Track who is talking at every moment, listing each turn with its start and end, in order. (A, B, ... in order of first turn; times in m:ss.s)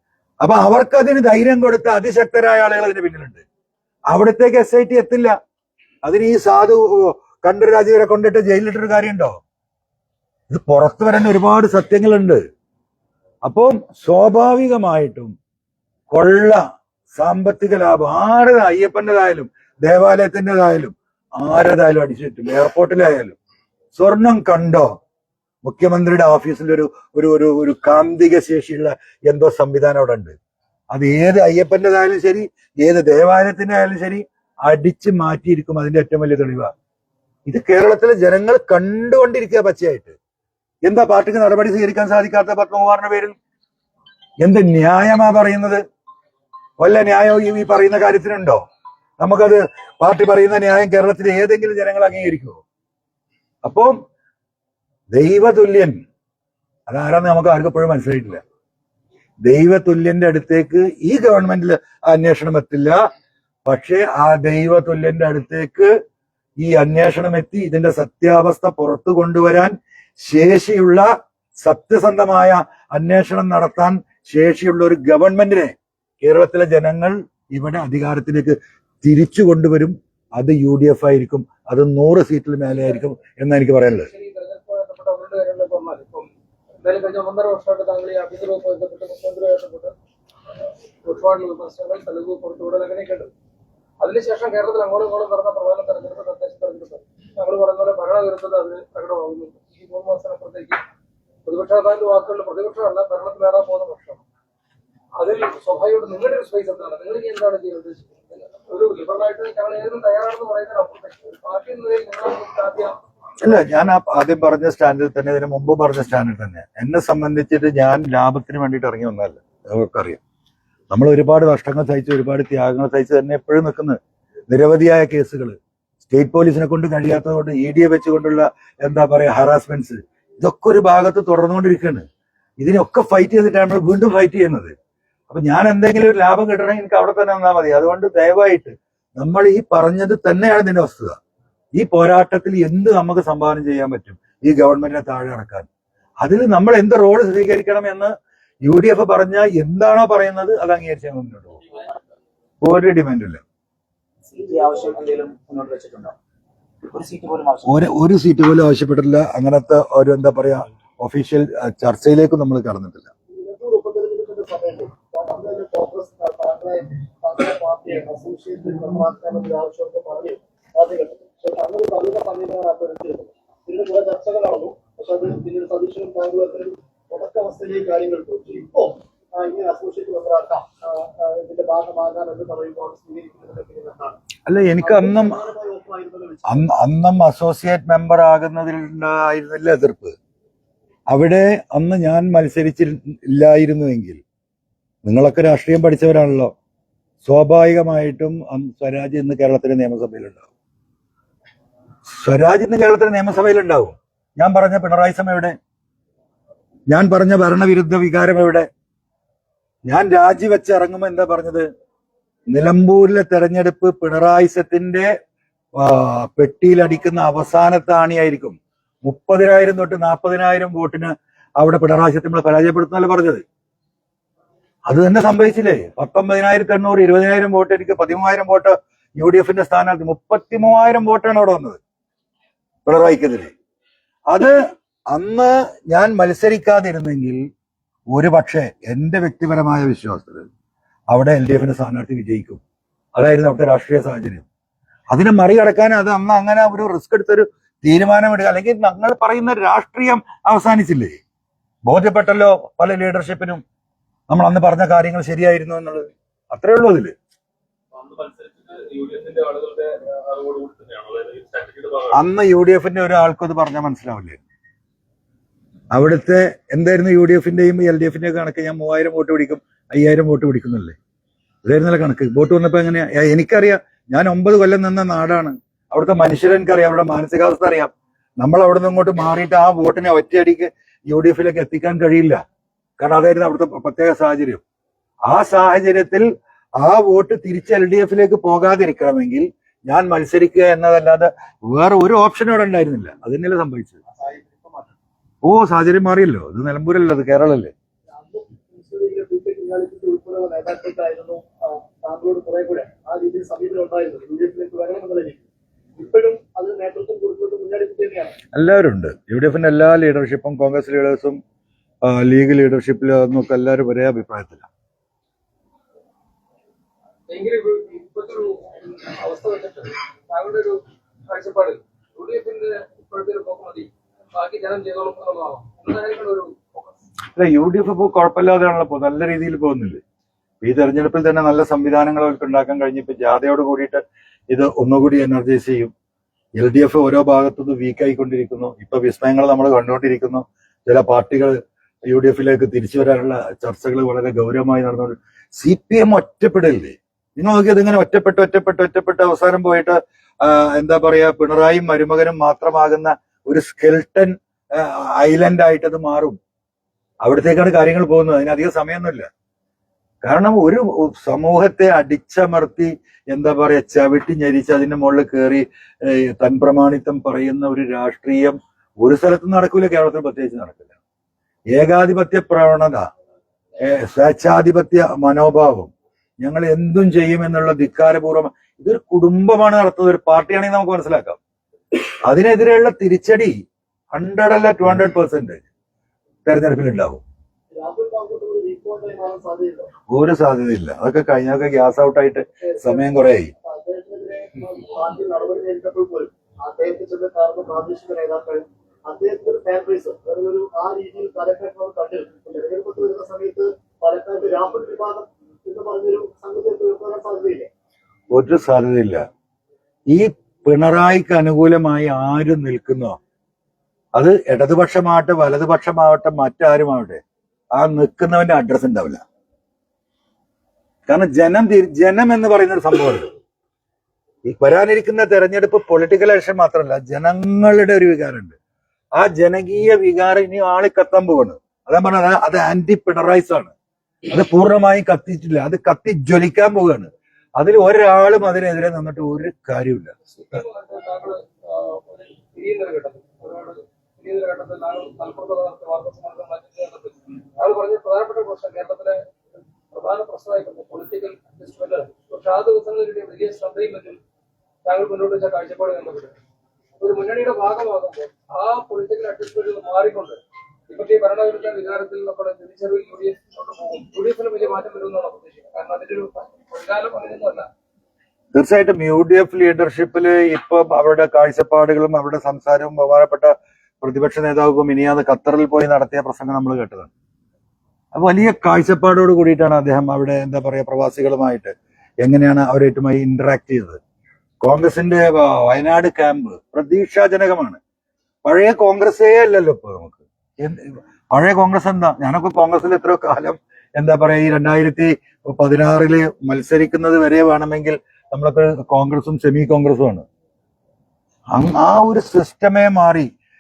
0:00.4-0:03.4 A
0:04.1-0:05.4 A
0:06.0-0:09.4 A
0:10.5-0:12.4 A
0:13.4-0:15.3 A
0:16.1-0:16.6 A
0:17.1-0:23.4 A
0:23.9-0:24.9 A
0:25.6-0:30.3 A
0:30.9-0:36.7 A
0:37.5-0:40.2 A
0:40.8-0:43.3 A
0:44.4-0:45.8 A
0:46.8-0:48.6 A
0:49.2-0:52.6 A
0:53.6-0:54.0 A
0:55.1-0:56.0 A
0:56.9-0:58.4 A
0:59.4-1:03.0 A
1:03.6-1:05.9 A
1:06.6-1:11.1 A
1:11.6-1:24.1 A
1:24.1-1:26.3 B
1:26.8-1:29.9 B
1:31.0-1:33.3 B
1:34.0-1:40.8 B
1:41.4-1:44.2 B
1:45.2-1:53.0 B
1:53.4-2:00.2 A
2:00.9-2:04.0 A
2:04.5-2:12.0 A
2:12.6-2:14.7 A
2:15.3-2:21.2 A
2:21.8-2:25.7 A
2:26.2-2:28.1 A
2:28.6-2:31.6 A
2:32.6-2:33.4 A
2:34.2-2:36.1 C
2:34.4-2:35.1 D
2:36.8-2:37.8 C
2:37.6-2:43.1 A
2:43.3-3:04.2 D
3:04.5-3:05.4 A
3:04.8-3:06.7 D
3:06.5-3:10.2 A
3:11.1-3:14.2 A
3:15.0-3:16.5 A
3:17.2-3:20.5 A
3:22.1-3:25.5 A
3:26.9-3:28.7 A
3:29.9-3:31.7 A
3:32.5-3:35.1 A
3:35.8-3:43.4 A
3:44.9-3:51.8 A
3:52.8-3:53.5 A
3:54.3-3:54.6 A
3:55.1-3:57.4 A
3:58.1-4:00.5 A
4:01.1-4:02.6 A
4:03.2-4:04.4 A
4:05.1-4:11.2 A
4:11.9-4:13.6 A
4:14.3-4:17.1 A
4:17.9-4:22.2 E
4:22.1-4:24.4 A
4:25.9-4:31.0 A
4:31.6-4:42.4 A
4:43.0-4:44.6 A
4:45.3-4:54.0 A
4:54.1-4:54.9 D
4:55.4-4:57.7 A
4:58.1-5:05.4 D
5:06.0-5:08.4 D
5:08.5-5:11.4 A
5:12.0-5:14.7 A
5:17.3-5:26.9 B
5:27.3-5:30.0 A
5:30.6-5:35.9 A
5:36.6-5:56.4 A
5:57.2-5:59.3 A
6:00.2-6:10.9 A
6:11.7-6:13.1 A
6:13.8-6:21.4 A
6:22.2-6:23.6 A
6:24.1-6:25.6 A
6:26.4-6:27.2 A
6:27.7-6:29.9 D
6:30.1-6:33.5 A
6:32.6-6:33.0 D
6:33.6-6:47.7 D
6:48.3-6:49.2 A
6:50.1-6:53.2 A
6:54.1-6:57.2 A
6:57.8-6:59.2 A
7:01.1-7:03.3 A
7:04.4-7:08.6 A
7:09.2-7:13.7 A
7:14.3-7:20.6 A
7:20.5-7:29.2 B
7:29.9-7:34.2 B
7:34.8-7:36.3 B
7:37.0-7:47.7 B
7:48.5-7:57.1 A
7:58.1-8:04.0 A
8:04.6-8:07.8 A
8:08.4-8:20.2 A
8:21.5-8:23.3 A